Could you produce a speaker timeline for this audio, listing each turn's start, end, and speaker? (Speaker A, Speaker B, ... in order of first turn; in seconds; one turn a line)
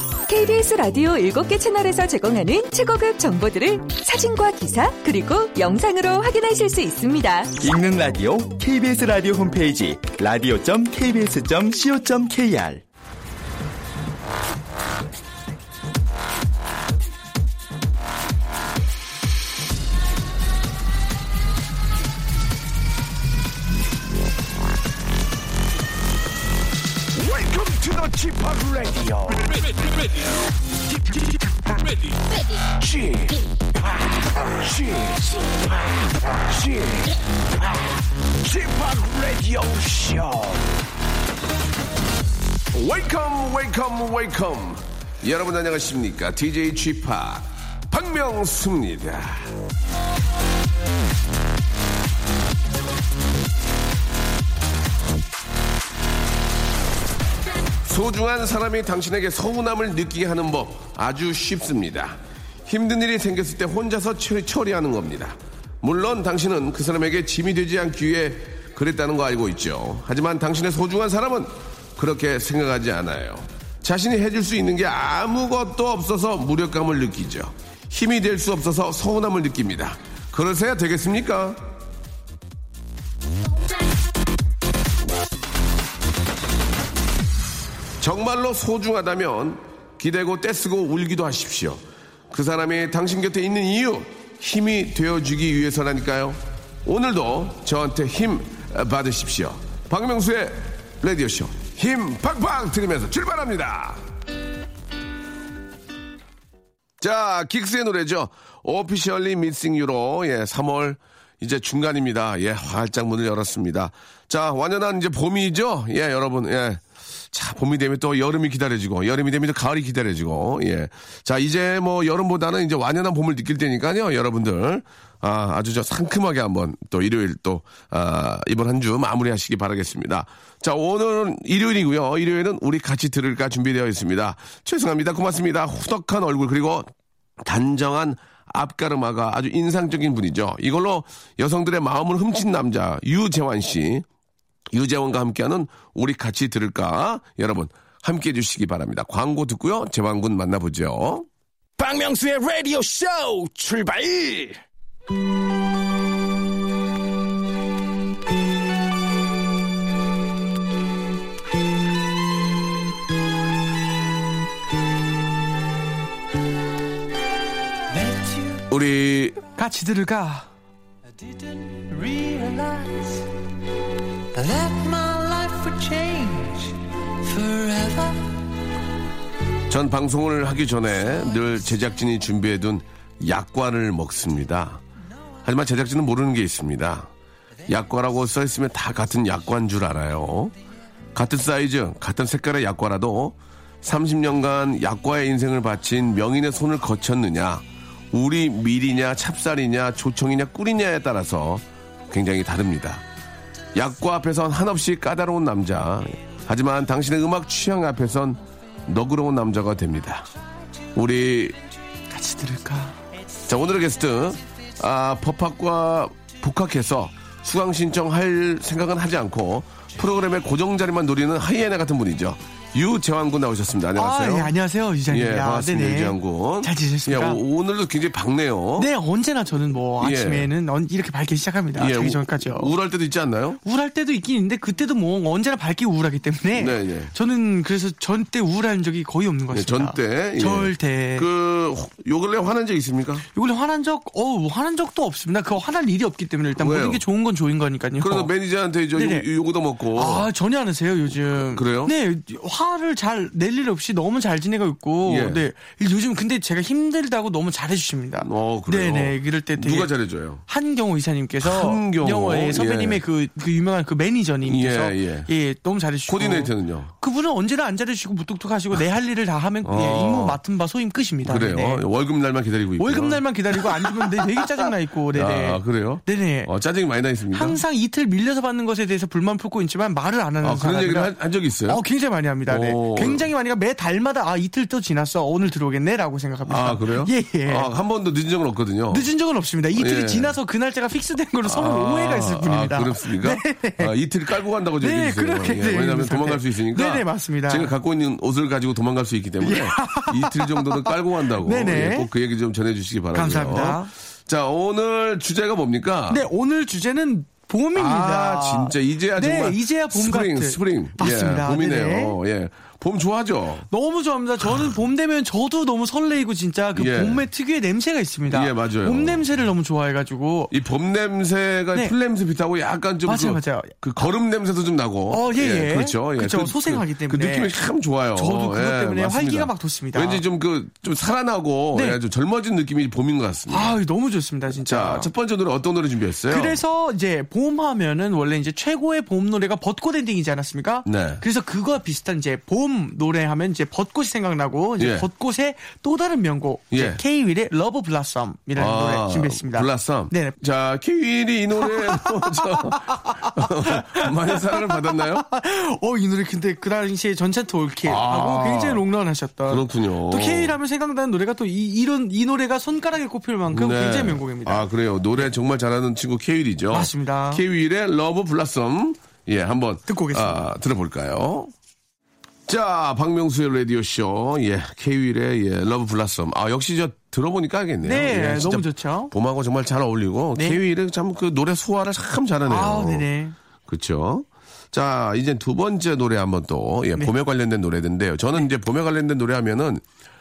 Speaker A: 0.3-7.5
Speaker B: 7.6-12.8
Speaker C: 27.1-30.3
Speaker C: 30.9-40.8
Speaker C: 42.7-49.5
Speaker C: 57.8-81.7
Speaker C: 88.0-104.0
Speaker C: 107.0-136.9
Speaker C: 137.4-144.1
Speaker C: 144.7-151.3
Speaker D: 151.8-154.6
Speaker E: 168.0-168.5
Speaker C: 168.6-169.4
Speaker F: 169.5-170.5
Speaker E: 172.0-172.9
Speaker E: 174.4-176.6
Speaker E: 177.3-178.2
Speaker C: 179.7-184.8
Speaker C: 185.4-187.1
Speaker C: 187.7-190.5
Speaker C: 191.1-203.0
Speaker C: 203.7-210.3
Speaker C: 210.9-211.6
Speaker F: 212.1-213.0
Speaker C: 213.5-224.5
Speaker F: 223.9-227.4
Speaker C: 225.1-228.9
Speaker F: 228.8-232.7
Speaker C: 230.0-230.5
Speaker C: 231.8-233.6
Speaker F: 233.6-241.3
Speaker C: 236.5-237.1
Speaker C: 239.5-243.2
Speaker F: 243.3-248.3
Speaker C: 246.6-247.0
Speaker C: 248.0-250.3
Speaker F: 248.9-249.3
Speaker F: 249.9-259.9
Speaker C: 251.3-251.9
Speaker C: 255.0-255.4
Speaker C: 258.2-260.4
Speaker F: 260.5-271.8
Speaker C: 261.4-263.0
Speaker C: 264.4-265.3
Speaker C: 266.1-266.9
Speaker C: 269.6-270.4
Speaker C: 271.2-277.6
Speaker F: 272.8-276.5
Speaker F: 277.3-287.7
Speaker C: 280.4-281.8
Speaker C: 282.5-283.3
Speaker C: 286.4-289.1
Speaker F: 288.9-293.9
Speaker C: 289.7-290.4
Speaker C: 291.4-306.3
Speaker F: 294.8-297.7
Speaker F: 299.4-302.1
Speaker F: 303.1-303.9
Speaker F: 306.1-312.2
Speaker C: 307.7-313.7
Speaker F: 313.7-320.5
Speaker C: 316.7-317.3
Speaker C: 318.3-319.2
Speaker C: 320.5-333.8
Speaker F: 323.0-324.1
Speaker F: 325.1-327.5
Speaker F: 328.1-330.2
Speaker F: 331.7-332.0
Speaker F: 333.5-335.1
Speaker C: 334.5-336.6
Speaker F: 336.3-350.4
Speaker C: 340.8-341.2
Speaker C: 344.8-345.1
Speaker C: 346.7-347.0
Speaker C: 348.6-355.2
Speaker F: 351.6-365.3
Speaker C: 357.9-358.8
Speaker C: 359.5-360.6
Speaker C: 363.5-371.5
Speaker F: 366.7-367.4
Speaker F: 369.9-370.5
Speaker C: 372.5-383.1
Speaker F: 377.8-379.1
Speaker F: 382.5-383.4
Speaker C: 383.6-389.8